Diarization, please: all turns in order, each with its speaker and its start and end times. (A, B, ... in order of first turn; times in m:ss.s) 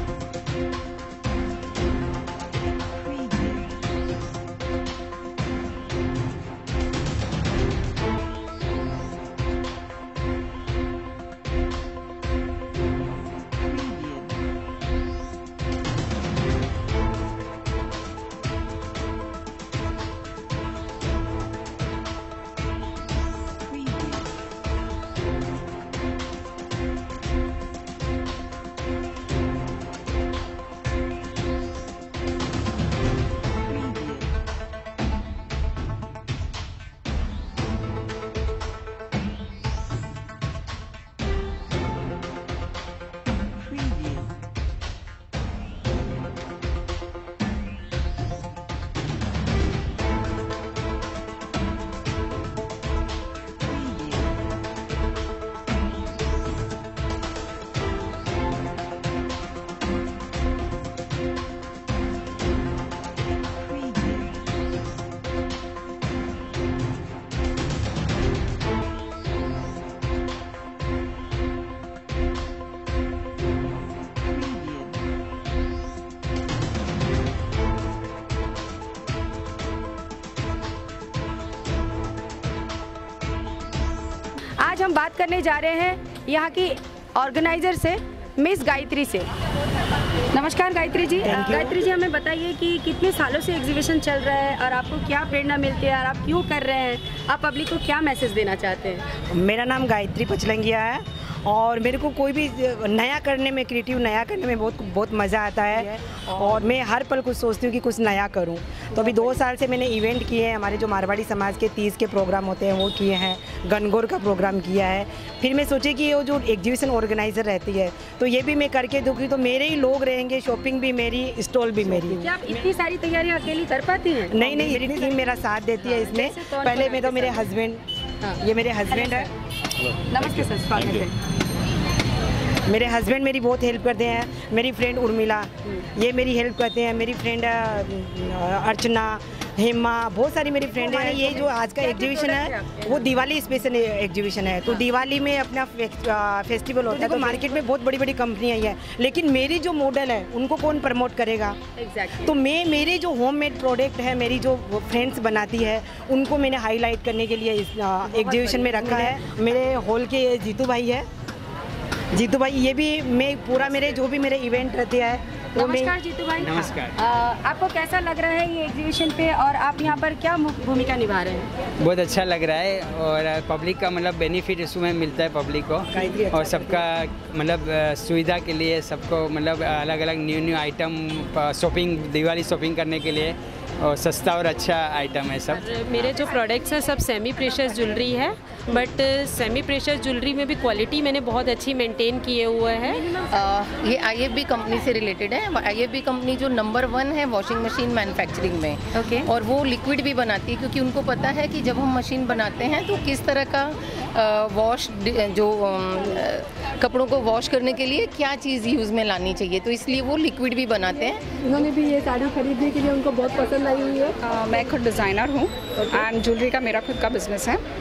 1:24.6-1:29.3 A
1:30.3-1:39.1 A
1:31.2-1:31.8 B
1:39.3-2:02.6 B
2:02.2-2:05.2 A
2:04.3-2:07.8 B
2:05.8-2:07.5 A
2:08.2-2:09.3 A
2:08.4-2:09.3 B
2:10.1-2:11.1 A
2:12.6-2:31.6 B
2:20.8-2:23.1 A
2:27.0-2:27.4 A
2:31.8-2:32.3 A
2:32.2-2:41.0 B
2:38.1-2:39.2 A
2:42.1-2:46.0 B
2:45.6-2:51.5 A
2:46.4-2:46.9 C
2:51.8-3:05.6 C
2:55.9-2:56.9 B
3:05.5-3:13.1 D
3:13.1-3:31.2 E
3:18.9-3:19.3 A
3:31.4-3:34.1 F
3:34.2-3:37.6 G